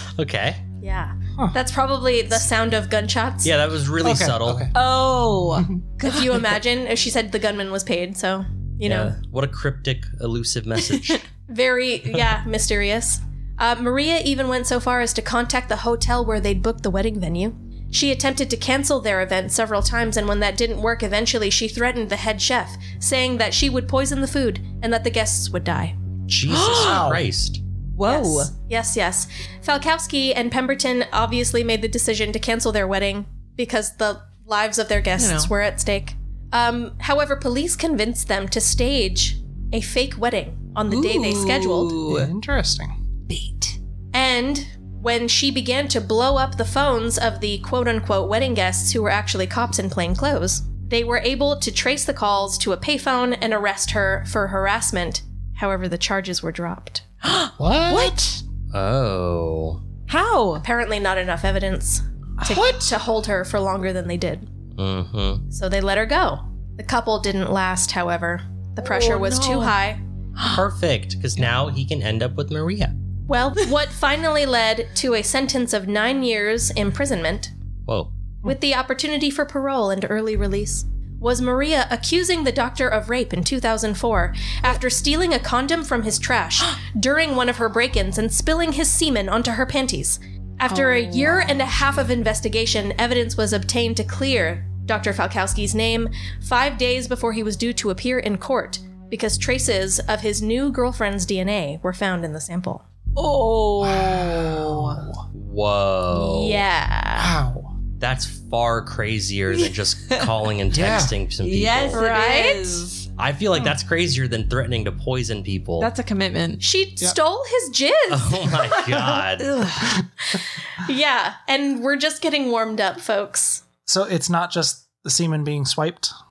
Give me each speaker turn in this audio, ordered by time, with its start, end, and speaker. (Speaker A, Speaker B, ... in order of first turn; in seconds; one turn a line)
Speaker A: 0.1-0.6
Speaker B: 0.8-3.5
Speaker A: 3.4-4.7
Speaker C: 4.0-4.7
Speaker D: 4.7-6.5
Speaker B: 6.0-9.1
Speaker A: 8.8-11.2
Speaker B: 11.5-25.9
Speaker A: 26.3-27.6
Speaker D: 26.5-27.1
Speaker C: 26.7-27.3
Speaker D: 27.9-28.5
Speaker B: 28.0-42.0
Speaker D: 35.2-35.5
Speaker D: 40.9-42.3
Speaker C: 42.0-43.0
Speaker D: 43.3-43.8
Speaker B: 44.1-57.0
Speaker D: 57.2-58.4
Speaker C: 57.6-58.4
Speaker A: 58.7-59.8
Speaker D: 60.1-60.6
Speaker B: 60.6-64.5
Speaker C: 62.4-62.9
Speaker A: 64.8-65.4
Speaker B: 65.5-70.0
Speaker D: 68.8-69.7
Speaker A: 70.5-72.9
Speaker B: 73.3-77.5
Speaker A: 77.8-78.1
Speaker B: 78.4-102.8
Speaker D: 90.7-91.9
Speaker D: 103.2-105.0
Speaker C: 103.8-105.2
Speaker A: 105.3-106.6
Speaker B: 106.1-107.3
Speaker C: 107.2-107.7
Speaker A: 108.0-112.0
Speaker D: 109.5-110.3
Speaker C: 110.7-111.1
Speaker D: 111.4-113.1
Speaker B: 111.9-112.8
Speaker A: 113.2-115.9
Speaker D: 115.8-116.6
Speaker B: 116.6-118.5
Speaker A: 118.1-119.6
Speaker C: 118.8-119.2
Speaker D: 119.4-120.0
Speaker C: 119.8-120.3
Speaker B: 120.7-123.6
Speaker C: 123.8-126.1